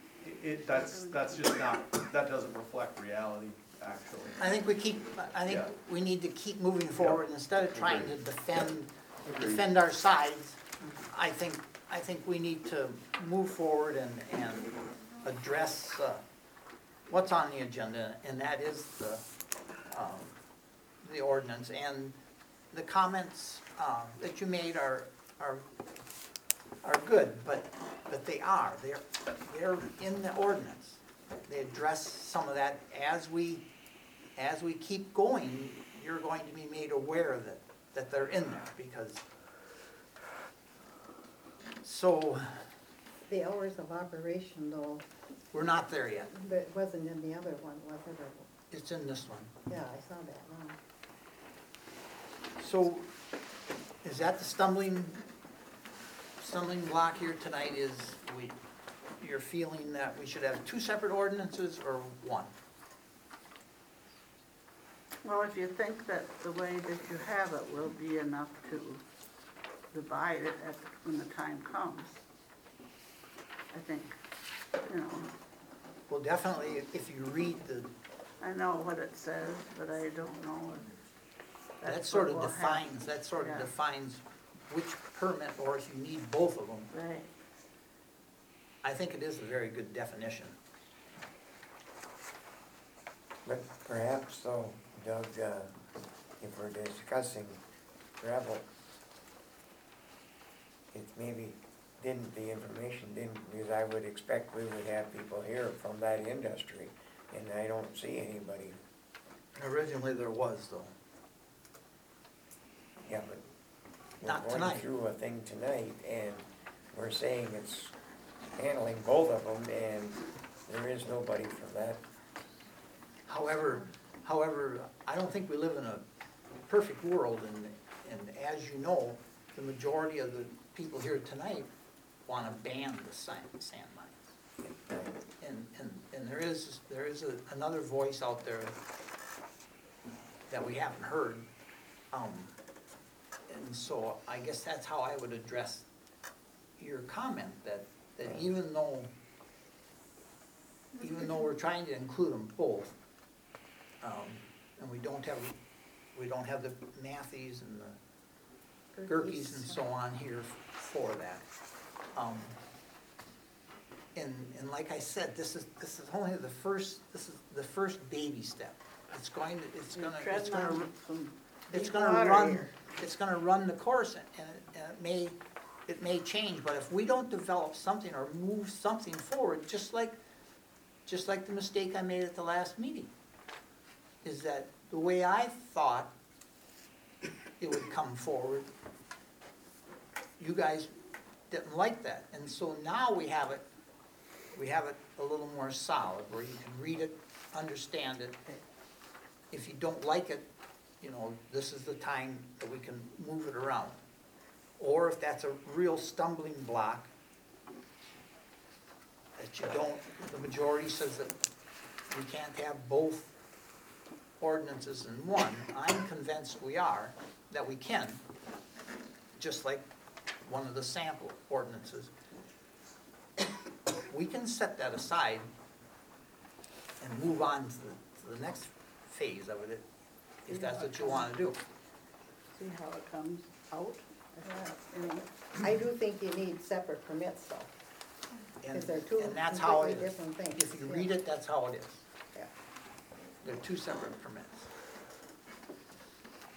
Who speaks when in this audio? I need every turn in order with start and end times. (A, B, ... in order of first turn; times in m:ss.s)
0:00.2-0:04.5 A
0:00.8-0:01.4 B
0:04.4-0:16.2 C
0:07.7-0:08.1 A
0:09.2-0:09.6 A
0:17.1-0:19.2 C
0:19.9-0:20.4 C
0:21.0-0:22.2 C
0:22.7-0:25.6 C
0:26.8-0:33.6 C
0:34.4-0:39.2 C
0:41.8-0:42.7 C
0:43.3-0:45.0 D
0:45.5-0:46.3 C
0:46.3-0:48.5 D
0:48.7-0:49.5 C
0:49.7-0:50.8 D
0:52.6-0:53.1 C
0:54.0-0:55.2 C
0:56.4-0:58.6 C
0:59.2-1:02.5 C
1:05.2-1:09.0 B
1:09.9-1:12.2 B
1:13.7-1:14.2 B
1:14.8-1:15.3 B
1:16.1-1:17.9 C
1:18.4-1:20.9 B
1:21.8-1:23.7 B
1:21.8-1:26.9 C
1:26.9-1:27.3 B
1:28.8-1:30.6 C
1:33.4-1:35.7 E
1:36.4-1:37.6 E
1:38.2-1:38.6 E
1:40.9-1:48.8 E
1:49.6-1:50.9 C
1:53.0-1:53.4 E
1:54.2-1:57.9 E
1:54.2-1:54.9 C
1:58.6-2:02.0 E
2:03.3-2:06.0 C
2:06.6-2:11.7 C
2:12.3-2:14.2 C
2:14.6-2:15.1 E
2:15.4-2:18.8 C
2:20.5-2:21.5 C
2:22.1-2:22.5 C
2:23.5-2:25.9 C
2:26.8-2:29.1 C
2:31.0-2:31.2 D
2:31.0-2:33.0 C
2:34.0-2:35.6 C
2:36.1-2:38.0 C
2:38.9-2:39.8 D
2:39.1-2:41.5 C
2:42.1-2:42.5 C
2:44.1-2:50.8 C
2:49.9-2:52.9 B
2:51.7-3:00.2 C
3:01.1-3:03.1 C
3:04.2-3:06.1 C
3:07.6-3:08.7 C
3:10.4-3:10.9 C
3:11.5-3:13.6 C
3:14.5-3:18.4 C
3:19.5-3:20.5 C
3:21.0-3:24.0 C
3:24.8-3:27.1 C
3:29.4-3:31.4 C
3:32.1-3:33.3 C
3:34.4-3:38.2 C
3:39.3-3:39.9 C
3:40.4-3:42.1 C
3:44.1-3:45.5 C
3:47.0-3:49.8 C
3:50.4-3:51.6 C
3:50.5-3:51.3 B
3:52.5-3:55.2 B
3:54.4-3:54.8 D
3:55.6-3:57.7 D
3:58.6-4:02.0 C
3:58.7-4:01.1 D
4:03.4-4:04.7 C